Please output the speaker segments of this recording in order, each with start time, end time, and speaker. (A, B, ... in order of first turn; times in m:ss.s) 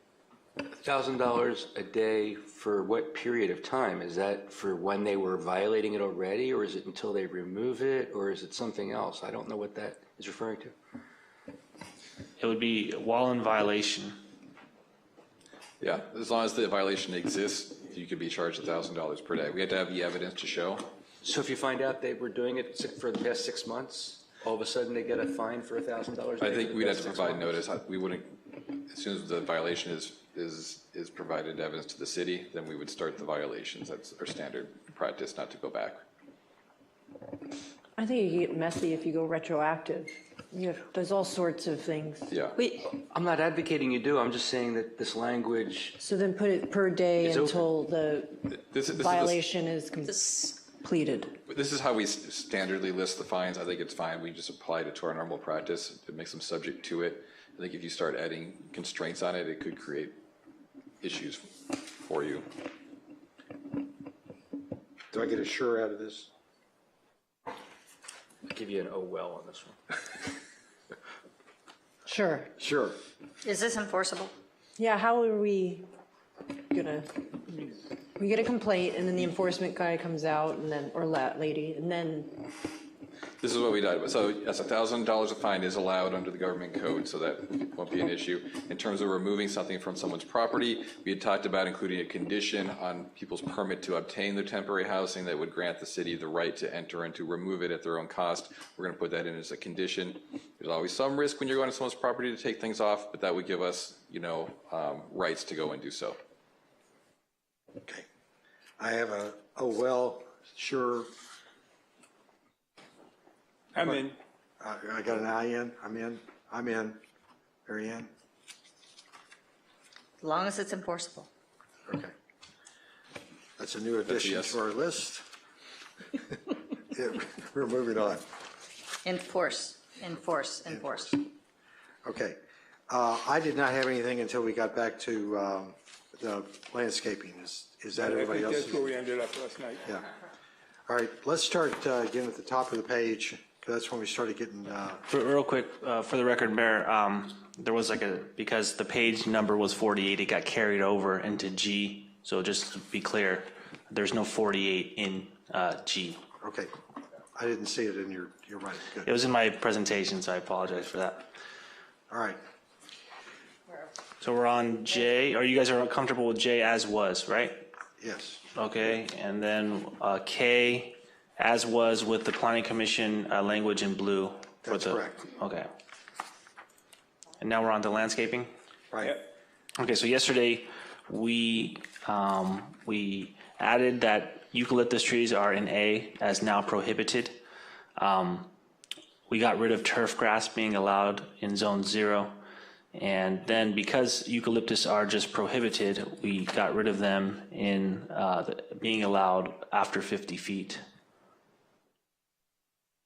0:00.6-0:10.7 A
0:12.4-0:14.2 B
0:15.8-0:20.9 C
0:21.2-0:27.6 A
0:26.4-0:36.0 C
0:38.0-0:42.4 D
0:42.3-0:42.6 C
0:42.8-0:46.0 A
0:46.0-0:51.4 D
0:47.2-0:47.7 A
0:48.5-0:49.4 C
0:51.5-1:00.2 C
1:01.0-1:02.5 C
1:05.1-1:06.3 E
1:08.4-1:09.8 A
1:12.0-1:12.5 D
1:12.6-1:13.0 E
1:13.4-1:14.3 F
1:14.8-1:15.8 D
1:16.7-1:22.5 D
1:23.4-1:46.2 C
1:48.8-1:51.1 E
1:53.7-1:54.2 G
1:54.6-1:57.0 E
1:57.7-1:58.1 E
2:00.2-2:01.3 F
2:01.9-2:02.1 E
2:03.6-2:05.2 E
2:04.1-2:04.6 C
2:06.9-2:08.2 E
2:09.0-2:11.2 F
2:10.6-2:11.2 E
2:12.0-2:12.4 E
2:12.9-2:18.8 E
2:18.0-2:19.8 G
2:20.9-2:25.0 E
2:25.1-2:36.2 B
2:36.4-2:36.7 E
2:37.3-2:39.1 E
2:39.0-2:41.2 B
2:42.1-2:42.4 E
2:44.2-2:47.7 B
2:48.0-2:48.4 E
2:48.5-2:55.7 B
2:54.6-2:55.2 E
2:57.4-2:58.5 B
2:58.9-2:59.2 E
2:59.8-3:07.4 B
3:08.0-3:08.5 B
3:09.3-3:12.4 B
3:12.9-3:20.8 B